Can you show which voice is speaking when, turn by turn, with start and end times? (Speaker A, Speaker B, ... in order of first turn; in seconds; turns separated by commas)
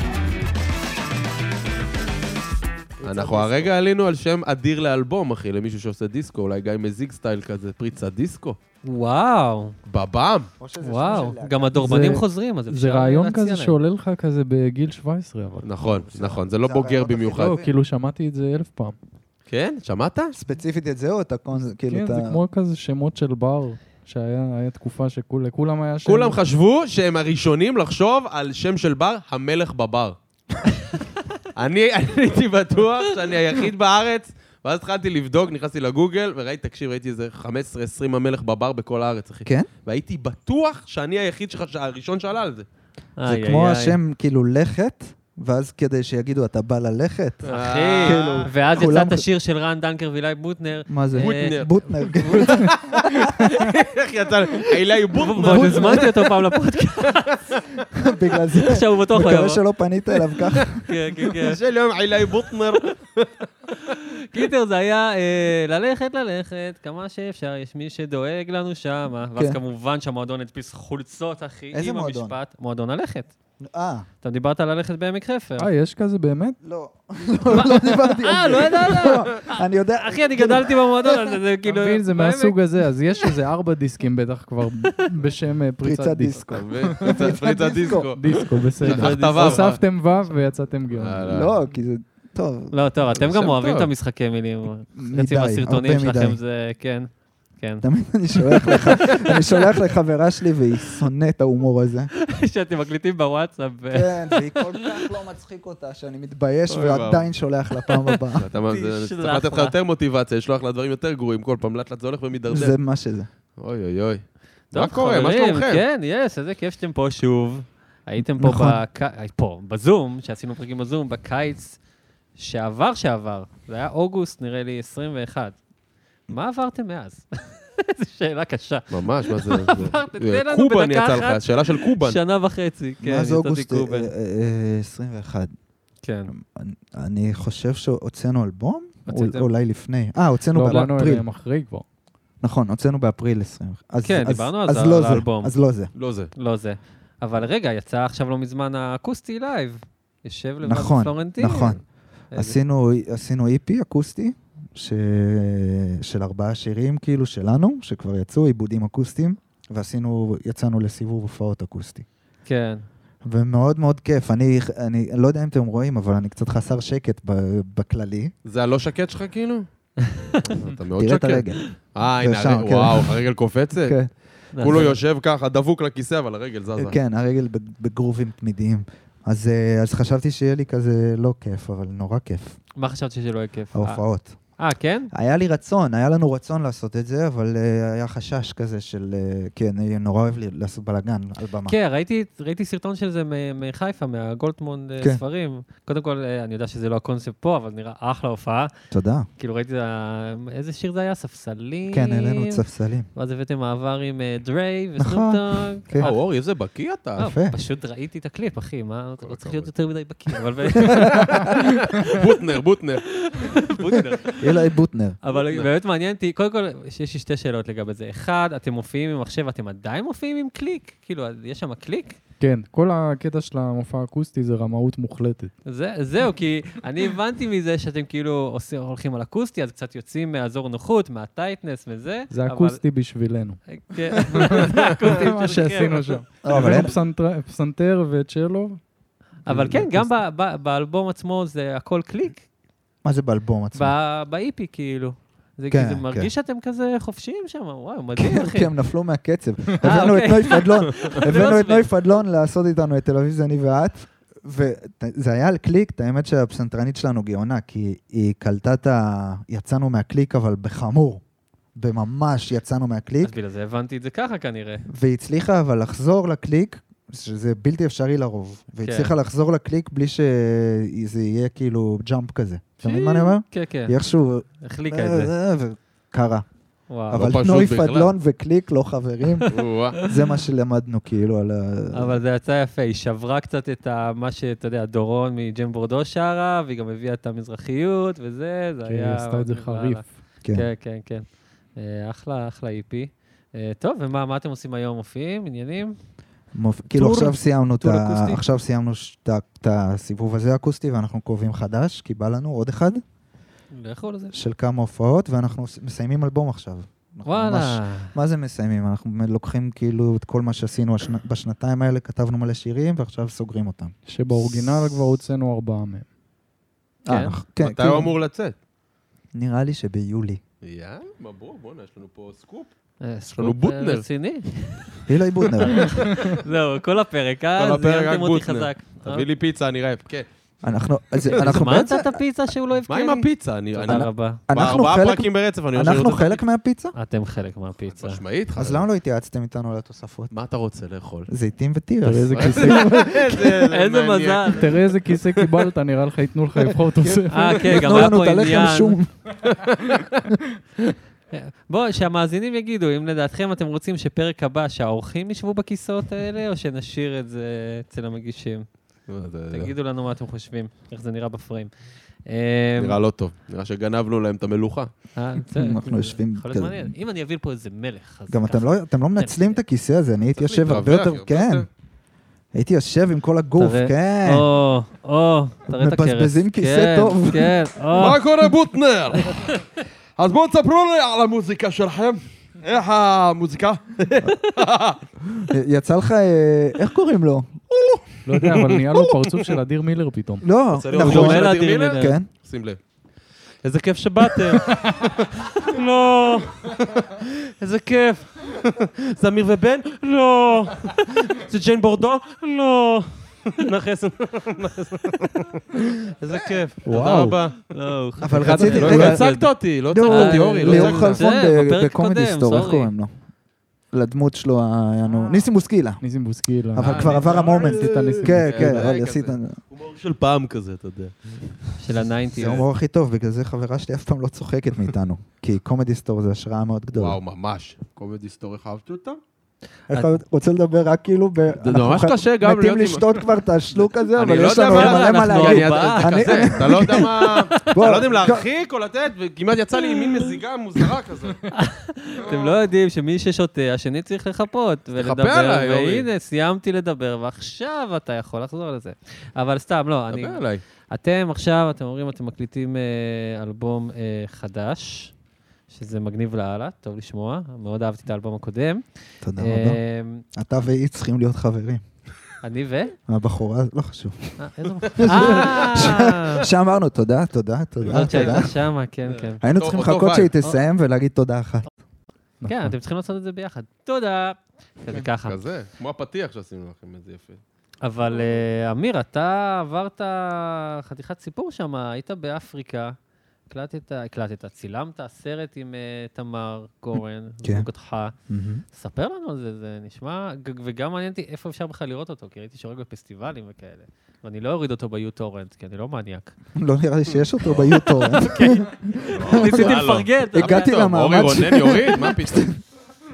Speaker A: 3.0-3.7, Speaker B: 3.0-8.6, Speaker C: 8.8-9.8, Speaker B: 9.9-10.5, Speaker A: 10.6-12.1, Speaker C: 10.8-13.8, Speaker D: 11.8-15.7, Speaker B: 15.6-17.6, Speaker A: 16.1-17.7, Speaker D: 17.3-18.9, Speaker B: 19.5-20.3, Speaker A: 20.4-22.4, Speaker D: 21.9-26.4, Speaker B: 26.1-30.2, Speaker B: 31.6-42.6, Speaker C: 43.2-44.0, Speaker A: 43.2-47.5, Speaker C: 47.4-52.7, Speaker B: 47.5-48.2, Speaker A: 48.0-49.3, Speaker A: 50.9-53.7, Speaker B: 51.2-51.7, Speaker B: 52.3-56.3, Speaker C: 55.1-57.4, Speaker A: 55.5-56.1, Speaker B: 57.5-57.9, Speaker A: 58.0-60.9, Speaker C: 58.5-59.6, Speaker C: 60.8-61.6, Speaker B: 61.3-63.5, Speaker C: 63.8-73.3, Speaker A: 71.7-72.4, Speaker A: 73.6-74.1, Speaker C: 74.2-75.7, Speaker D: 75.6-76.6, Speaker A: 76.6-81.4, Speaker C: 77.5-82.6, Speaker D: 81.7-87.4, Speaker A: 85.8-88.9, Speaker B: 86.5-89.8, Speaker D: 88.0-91.4, Speaker C: 88.8-89.7, Speaker B: 90.9-91.5, Speaker A: 91.3-92.7, Speaker C: 92.7-99.7, Speaker B: 93.2-93.9, Speaker A: 95.0-96.4, Speaker A: 97.8-102.1, Speaker C: 102.2-105.1, Speaker A: 103.9-108.5, Speaker B: 106.7-107.3, Speaker C: 107.9-109.8, Speaker B: 108.4-112.8, Speaker A: 112.5-113.3, Speaker B: 113.6-115.8, Speaker C: 114.7-121.8, Speaker A: 118.4-118.8, Speaker C: 122.4-125.6, Speaker C: 126.3-134.1, Speaker B: 128.9-132.2, Speaker A: 133.0-135.5, Speaker C: 136.0-136.3, Speaker A: 136.3-141.2, Speaker C: 139.1-139.5, Speaker D: 140.5-141.8, Speaker A: 142.4-145.9, Speaker C: 144.0-145.5, Speaker B: 145.9-146.3, Speaker C: 146.4-151.8, Speaker A: 150.6-151.8, Speaker A: 152.3-162.1, Speaker C: 162.5-162.8, Speaker A: 163.2-168.3, Speaker B: 168.4-169.7, Speaker C: 170.0-170.4, Speaker B: 170.3-174.0, Speaker A: 171.0-173.1, Speaker A: 173.8-174.1, Speaker C: 174.5-175.0, Speaker B: 174.6-177.0, Speaker A: 176.8-182.6, Speaker C: 182.8-184.0, Speaker A: 183.7-184.5, Speaker C: 184.6-185.1, Speaker A: 185.1-191.8, Speaker C: 191.7-198.7, Speaker A: 198.9-199.3, Speaker C: 199.4-206.2, Speaker A: 201.9-203.1, Speaker A: 205.0-206.1, Speaker B: 206.0-207.3, Speaker A: 207.2-207.6, Speaker C: 207.2-212.2, Speaker B: 209.2-209.7, Speaker B: 210.3-213.8, Speaker A: 210.8-211.5, Speaker C: 213.1-214.4, Speaker A: 214.4-215.2, Speaker C: 215.2-222.2, Speaker D: 222.4-225.5, Speaker C: 225.7-232.8, Speaker D: 232.3-233.6, Speaker C: 233.7-236.8, Speaker D: 234.2-238.8, Speaker A: 236.4-236.9, Speaker C: 239.4-242.5, Speaker D: 239.4-240.1, Speaker A: 243.0-243.9, Speaker C: 243.8-248.7, Speaker A: 245.7-246.3, Speaker A: 248.2-261.2, Speaker C: 249.8-251.9, Speaker A: 261.8-263.3, Speaker C: 263.2-264.9, Speaker A: 264.9-276.5, Speaker C: 268.8-269.1, Speaker C: 272.8-273.9, Speaker C: 274.6-275.3, Speaker C: 276.9-277.2, Speaker B: 277.1-278.1, Speaker A: 277.1-279.5, Speaker B: 279.5-280.0, Speaker A: 280.0-282.2, Speaker C: 281.9-295.9, Speaker D: 288.9-290.2, Speaker A: 296.5-303.0, Speaker C: 296.9-298.4, Speaker C: 303.7-304.4, Speaker A: 304.3-313.9, Speaker C: 307.3-308.1, Speaker D: 314.1-316.1, Speaker A: 317.1-318.1, Speaker C: 317.1-317.4, Speaker B: 317.6-318.5, Speaker A: 319.3-320.4, Speaker B: 320.6-322.7, Speaker C: 323.0-329.3, Speaker B: 323.4-324.1, Speaker A: 325.1-326.1, Speaker B: 325.6-326.4, Speaker B: 327.6-330.3, Speaker A: 330.6-332.2, Speaker C: 331.3-334.4, Speaker B: 332.9-336.4, Speaker A: 333.9-336.9, Speaker C: 337.0-338.2, Speaker B: 338.0-338.9, Speaker A: 338.6-340.3, Speaker B: 340.3-341.3, Speaker A: 341.3-343.4, Speaker D: 342.1-343.1, Speaker B: 342.3-345.7, Speaker C: 343.3-344.8, Speaker D: 344.5-348.0, Speaker A: 347.0-349.1, Speaker C: 347.3-349.0, Speaker B: 349.4-350.3, Speaker C: 351.3-358.7, Speaker B: 359.1-359.7, Speaker C: 359.5-361.7, Speaker C: 362.2-363.0, Speaker B: 362.8-364.9, Speaker C: 365.2-369.6, Speaker A: 365.5-366.9, Speaker A: 368.3-371.7, Speaker B: 370.4-371.7, Speaker A: 372.5-374.5, Speaker C: 373.6-378.2, Speaker A: 375.7-377.7, Speaker B: 377.9-379.6, Speaker C: 379.2-379.6, Speaker B: 380.2-385.0, Speaker A: 385.4-387.5, Speaker B: 387.7-389.6, Speaker D: 388.2-390.5, Speaker A: 390.4-392.3, Speaker B: 390.7-392.8, Speaker C: 390.9-392.2, Speaker B: 393.6-407.6, Speaker C: 406.3-406.6, Speaker A: 406.8-407.4, Speaker C: 407.7-412.9, Speaker A: 408.2-409.3, Speaker B: 408.4-411.3, Speaker A: 409.9-413.1, Speaker A: 413.9-416.0, Speaker D: 416.0-418.9, Speaker A: 416.7-419.6, Speaker B: 416.8-421.8, Speaker C: 421.8-422.6, Speaker A: 422.3-427.2, Speaker B: 426.9-429.2, Speaker A: 429.9-438.5, Speaker C: 429.9-430.2, Speaker B: 431.6-433.3, Speaker B: 434.1-441.5, Speaker C: 434.7-437.8, Speaker C: 439.8-440.3, Speaker C: 441.5-455.1, Speaker B: 442.2-442.5, Speaker B: 445.0-446.1, Speaker B: 450.1-450.6, Speaker C: 455.7-458.8, Speaker A: 459.2-459.8, Speaker C: 459.4-460.2, Speaker A: 460.3-461.8, Speaker C: 462.4-463.0, Speaker A: 463.1-464.4, Speaker C: 464.4-466.4, Speaker B: 464.9-465.7, Speaker A: 464.9-468.5, Speaker B: 467.9-468.5, Speaker C: 467.9-469.4, Speaker B: 469.2-470.3, Speaker A: 469.4-471.7, Speaker C: 472.4-475.4, Speaker A: 472.4-472.7, Speaker B: 475.2-477.4, Speaker C: 477.8-483.0, Speaker C: 483.5-488.1, Speaker A: 488.3-488.6, Speaker C: 488.7-496.3, Speaker A: 496.6-502.6, Speaker C: 497.5-500.7, Speaker B: 499.2-502.5